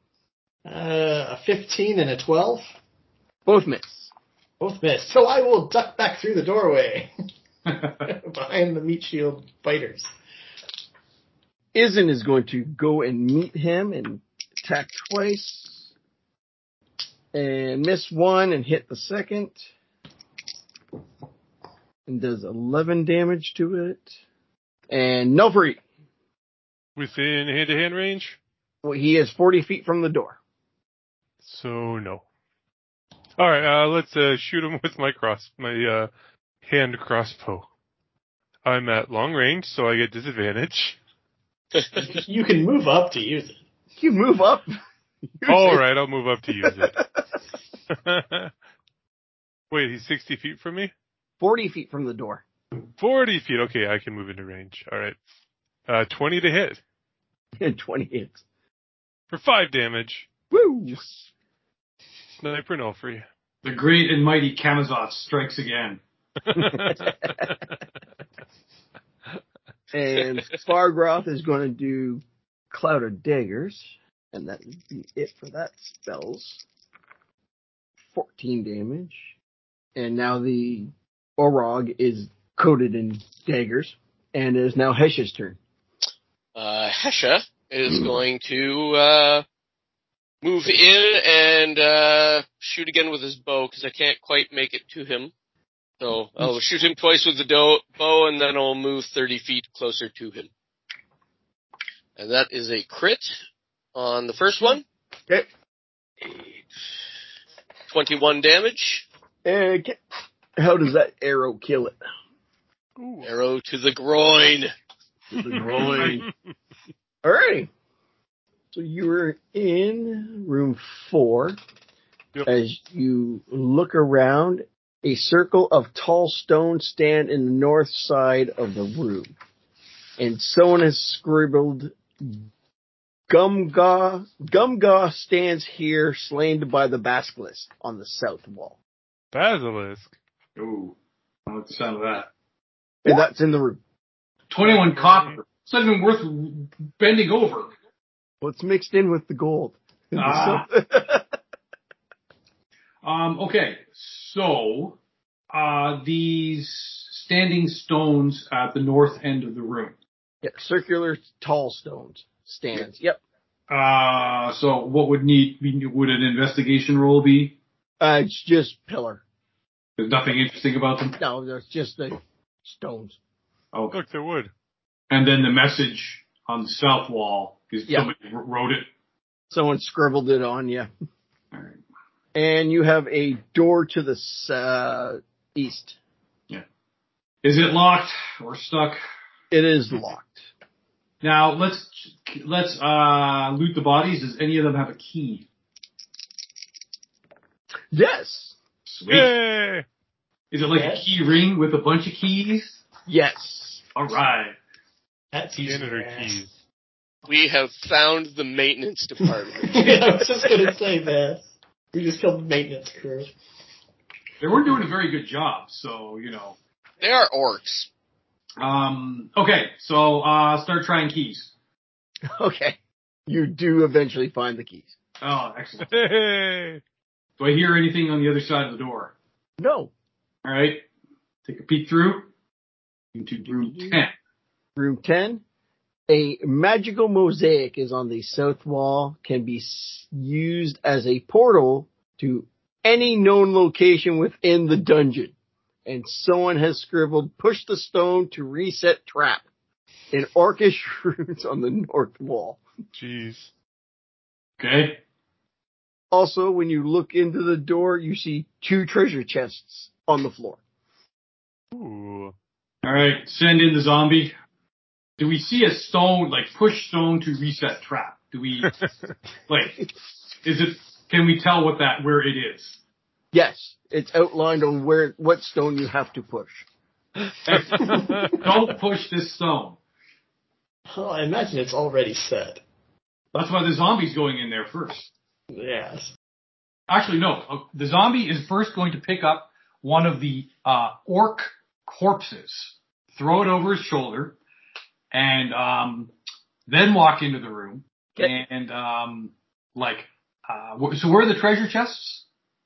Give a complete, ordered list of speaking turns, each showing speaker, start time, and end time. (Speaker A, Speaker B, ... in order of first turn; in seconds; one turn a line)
Speaker A: 0.7-2.6
Speaker B: 3.5-4.1
Speaker A: 4.6-7.1
Speaker A: 8.0-10.1
Speaker B: 11.7-15.9
Speaker B: 17.3-19.7
Speaker B: 22.1-24.1
Speaker B: 24.9-25.8
Speaker C: 26.9-28.4
Speaker B: 28.8-30.4
Speaker C: 31.4-32.2
Speaker C: 33.4-36.1
Speaker C: 36.6-37.7
Speaker C: 38.6-41.0
Speaker D: 41.7-42.0
Speaker A: 41.9-43.6
Speaker B: 44.0-44.7
Speaker B: 45.4-45.8
Speaker C: 45.5-47.0
Speaker C: 47.9-48.5
Speaker C: 49.7-50.9
Speaker B: 51.4-52.4
Speaker C: 53.0-55.2
Speaker C: 55.9-56.8
Speaker B: 57.6-58.4
Speaker C: 59.3-60.3
Speaker B: 60.5-61.2
Speaker C: 62.4-63.3
Speaker E: 63.6-66.0
Speaker C: 66.5-67.6
Speaker B: 69.9-76.6
Speaker B: 78.1-79.3
Speaker B: 80.0-85.6
Speaker D: 86.5-89.4
Speaker D: 90.4-95.3
Speaker D: 96.0-100.5
Speaker D: 102.2-103.4
Speaker D: 103.9-104.8
Speaker D: 107.9-109.0
Speaker B: 109.4-110.0
Speaker B: 110.6-112.0
Speaker C: 113.0-113.3
Speaker D: 113.2-114.7
Speaker B: 115.3-116.3
Speaker C: 115.5-116.2
Speaker B: 117.2-117.7
Speaker B: 118.7-121.6
Speaker B: 122.4-129.3
Speaker B: 130.2-132.4
Speaker B: 133.3-138.8
Speaker C: 139.3-140.1
Speaker E: 140.6-140.9
Speaker E: 141.5-142.3
Speaker B: 143.0-143.8
Speaker E: 144.5-147.7
Speaker C: 144.9-145.3
Speaker B: 148.4-151.2
Speaker E: 150.2-150.7
Speaker E: 153.0-155.0
Speaker E: 155.5-159.9
Speaker B: 160.4-163.2
Speaker E: 163.7-167.6
Speaker B: 168.0-169.2
Speaker E: 170.0-171.2
Speaker B: 171.2-173.2
Speaker C: 173.9-174.5
Speaker E: 175.1-178.9
Speaker B: 179.5-180.9
Speaker E: 181.5-181.8
Speaker B: 182.3-185.9
Speaker E: 187.4-189.0
Speaker B: 189.5-190.5
Speaker E: 191.2-195.4
Speaker B: 197.9-198.6
Speaker E: 198.8-199.3
Speaker C: 199.1-199.8
Speaker E: 200.5-202.8
Speaker A: 200.8-201.1
Speaker B: 203.1-203.8
Speaker E: 203.9-204.5
Speaker A: 205.3-206.4
Speaker C: 205.6-206.5
Speaker D: 207.2-210.0
Speaker A: 209.6-213.3
Speaker E: 214.4-216.6
Speaker D: 217.0-217.9
Speaker E: 218.6-221.5
Speaker B: 222.3-224.9
Speaker E: 225.2-225.9
Speaker C: 225.8-226.8
Speaker E: 227.4-229.1
Speaker B: 229.6-229.9
Speaker E: 230.4-230.8
Speaker E: 231.4-232.3
Speaker E: 233.1-234.1
Speaker B: 233.6-234.0
Speaker B: 234.8-235.4
Speaker B: 236.1-245.3
Speaker B: 245.8-249.4
Speaker B: 250.1-252.6
Speaker C: 252.9-253.5
Speaker E: 254.6-255.0
Speaker B: 256.1-260.6
Speaker C: 261.7-262.3
Speaker E: 262.8-264.3
Speaker E: 265.2-268.7
Speaker C: 268.8-269.1
Speaker E: 269.5-269.9
Speaker E: 270.4-272.8
Speaker B: 273.3-276.6
Speaker E: 277.4-279.8
Speaker C: 277.7-278.3
Speaker A: 277.8-278.3
Speaker A: 280.9-282.6
Speaker E: 283.3-285.1
Speaker A: 285.5-286.1
Speaker E: 286.9-294.4
Speaker E: 295.1-296.1
Speaker E: 296.7-302.2